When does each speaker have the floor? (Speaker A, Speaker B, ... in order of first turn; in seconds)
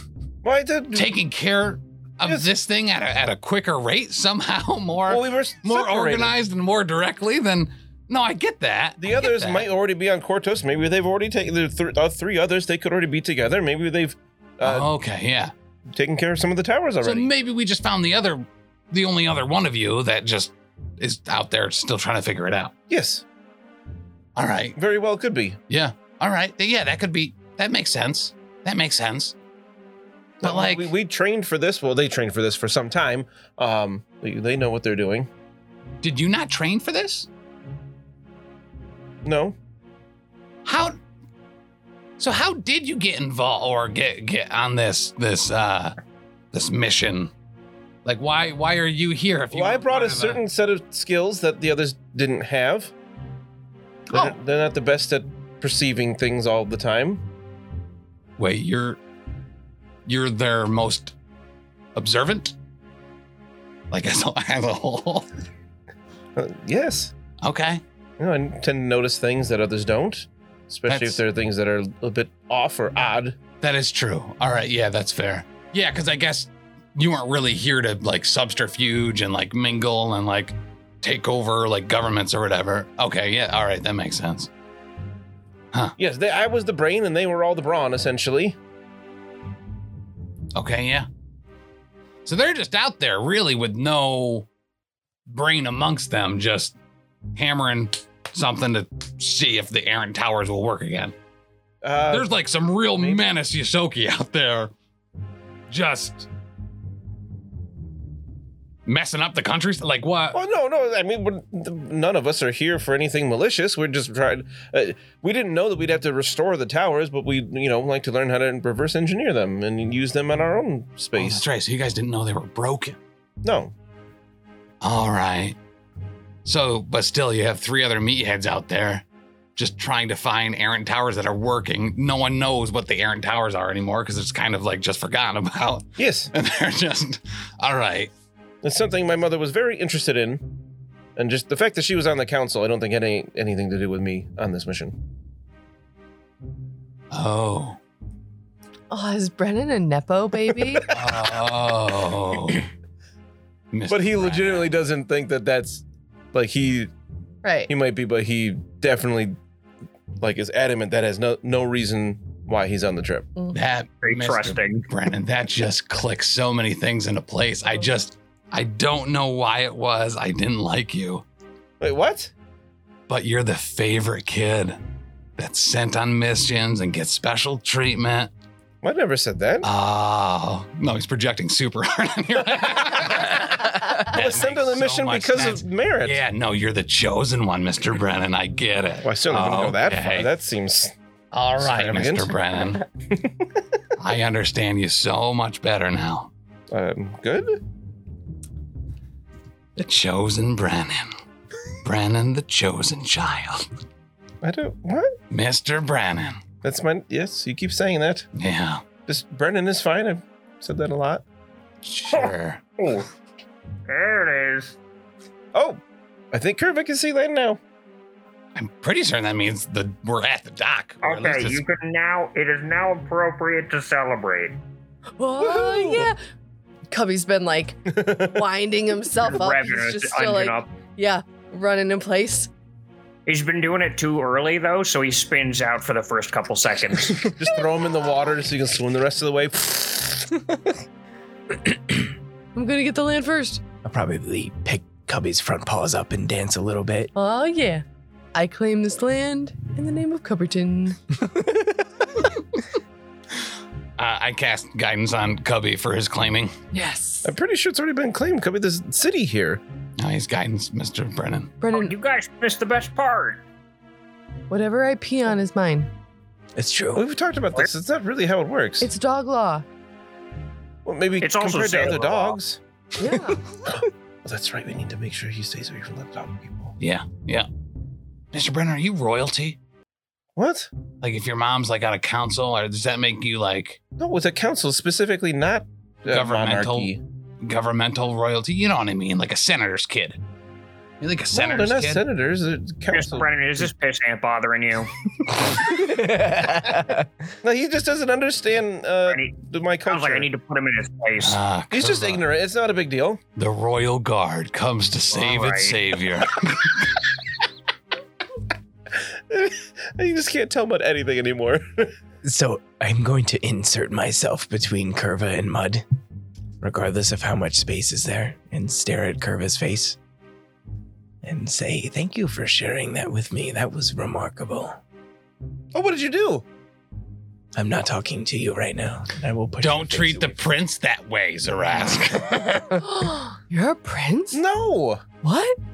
Speaker A: 0.4-1.1, 5.1-6.3, 9.0-14.9, 15.9-17.3, 22.9-23.2, 24.8-25.6, 30.4-35.3, 39.2-39.6, 49.5-52.9, 54.1-57.2, 66.4-67.1, 68.2-73.4, 86.0-88.6, 101.8-102.3, 103.0-103.2, 110.3-121.4, 123.4-123.7, 136.0-136.3, 138.6-140.5, 141.2-145.0, 150.8-151.1, 153.9-156.9, 157.7-159.4, 160.2-163.3, 171.8-172.3, 178.8-179.7, 183.2-186.2, 189.0-190.9, 191.6-192.4, 193.1-193.4, 196.7-197.6, 204.4-205.2, 206.6-208.3, 209.1-211.2, 215.5-215.8, 216.3-217.6, 225.4-226.1, 227.9-228.4, 237.2-240.4, 257.2-259.6, 266.9-268.9, 270.9-272.6, 273.6-276.8, 280.4-280.7, 284.0-287.0, 291.3-293.7, 297.4-300.3, 301.7-303.2, 309.3-311.9, 325.7-326.5, 334.3-335.0
Speaker B: 0.9-9.7, 14.6-15.5, 17.0-22.7, 24.4-24.8, 25.7-29.4, 30.4-30.9, 36.0-37.3, 40.6-41.0, 42.2-46.0, 46.5-47.3, 48.0-50.4, 58.4-59.0, 60.1-61.1, 62.0-62.5, 63.9-65.3, 67.4-67.8, 70.9-71.2, 73.6-84.5, 90.5-91.1, 92.2-94.5, 95.3-96.8, 97.3-101.1, 102.1-104.7, 105.7-106.3, 108.9-110.4, 121.2-123.0, 124.8-125.6, 126.5-129.0, 129.6-138.1, 147.1-147.8, 150.9-152.7, 153.7-154.7, 163.5-171.2, 173.1-174.8, 175.4-178.3, 179.6-190.3, 191.3-192.9, 194.0-196.3, 199.8-201.1, 201.8-203.7, 205.3-206.4, 208.3-208.8, 211.8-212.6, 218.6-221.6, 254.0-256.6, 260.0-261.5, 276.8-277.5, 278.3-279.6, 281.0-283.8, 286.1-290.2, 291.0-292.0, 301.2-302.3, 303.4-306.9, 329.6-332.8
Speaker C: 148.9-150.9, 157.4-157.7, 225.2-226.2, 226.9-232.5, 242.6-243.6, 247.2-247.8, 248.3-251.4, 256.7-257.3, 261.6-261.9, 264.5-265.9, 268.8-269.6, 273.0-273.4, 332.7-334.4, 335.2-335.6
Speaker D: 164.0-164.9, 212.1-213.1, 213.9-214.8, 221.0-224.6, 229.2-230.7, 233.3-237.3, 261.7-263.4, 271.2-272.4, 292.9-294.9, 299.1-299.3, 299.9-301.4, 305.1-305.8
Speaker E: 243.8-247.1, 266.6-267.1, 295.6-297.1, 312.2-315.8, 316.6-320.0, 321.2-324.8, 327.6-330.4